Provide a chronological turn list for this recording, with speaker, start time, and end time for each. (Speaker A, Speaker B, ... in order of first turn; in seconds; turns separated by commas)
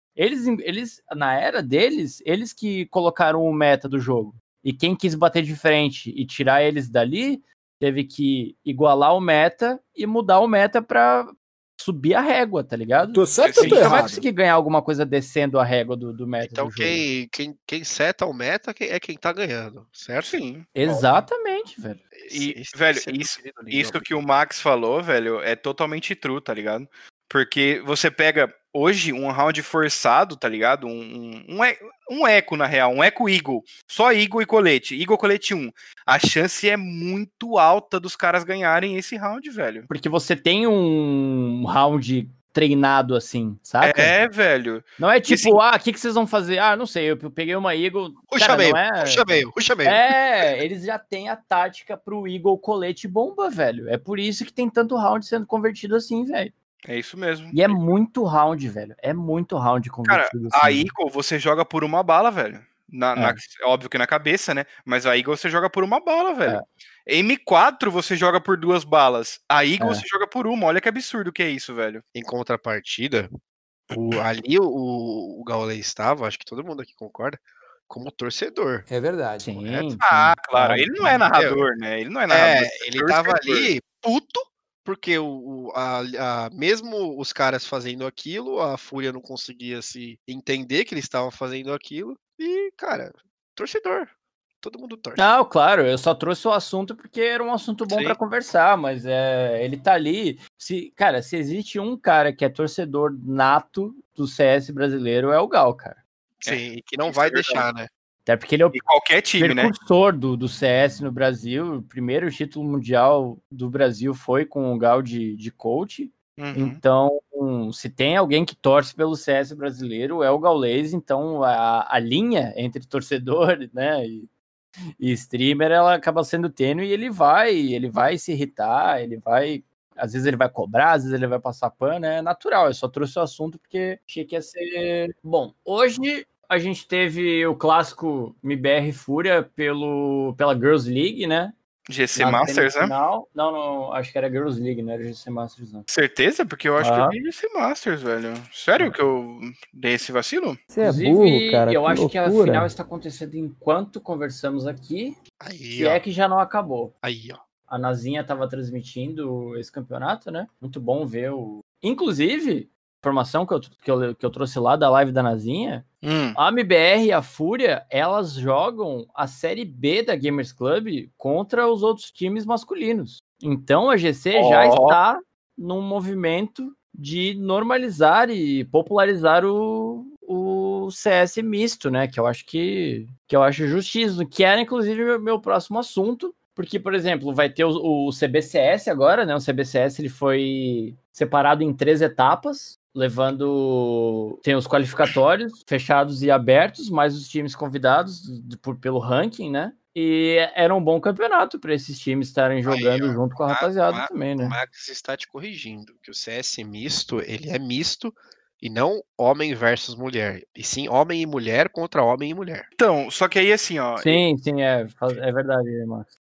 Speaker A: 0.1-17.0, Speaker B: 13.2-14.2, Speaker C: 13.4-14.0, Speaker D: 16.4-20.4, Speaker C: 20.2-21.1, Speaker A: 20.8-22.0, Speaker D: 22.2-24.1, Speaker C: 22.3-39.9, Speaker A: 39.9-44.1, Speaker C: 43.8-45.6, Speaker A: 45.0-56.5, Speaker D: 48.3-50.1, Speaker C: 56.9-57.8, Speaker A: 57.5-60.9, Speaker C: 60.1-72.0, Speaker A: 69.8-70.0, Speaker D: 72.1-73.3, Speaker D: 73.9-78.9, Speaker B: 78.9-79.9, Speaker A: 79.4-81.2, Speaker C: 80.0-83.7, Speaker D: 81.3-81.6, Speaker D: 82.3-95.3, Speaker A: 95.2-106.0, Speaker D: 97.9-98.2, Speaker C: 106.4-107.7, Speaker D: 106.4-107.9, Speaker A: 108.3-108.8, Speaker C: 108.7-109.7, Speaker A: 109.4-124.3, Speaker C: 116.4-116.8, Speaker A: 125.0-141.6, Speaker C: 141.9-142.9, Speaker A: 142.1-145.9, Speaker C: 145.9-150.6, Speaker A: 146.8-147.2, Speaker B: 150.8-152.7, Speaker A: 150.8-155.2, Speaker D: 155.4-156.0, Speaker A: 155.7-156.9, Speaker D: 157.0-157.4, Speaker A: 157.7-204.5, Speaker C: 166.0-166.4, Speaker C: 174.3-175.0, Speaker D: 202.7-212.7, Speaker C: 212.8-214.2, Speaker A: 214.0-216.1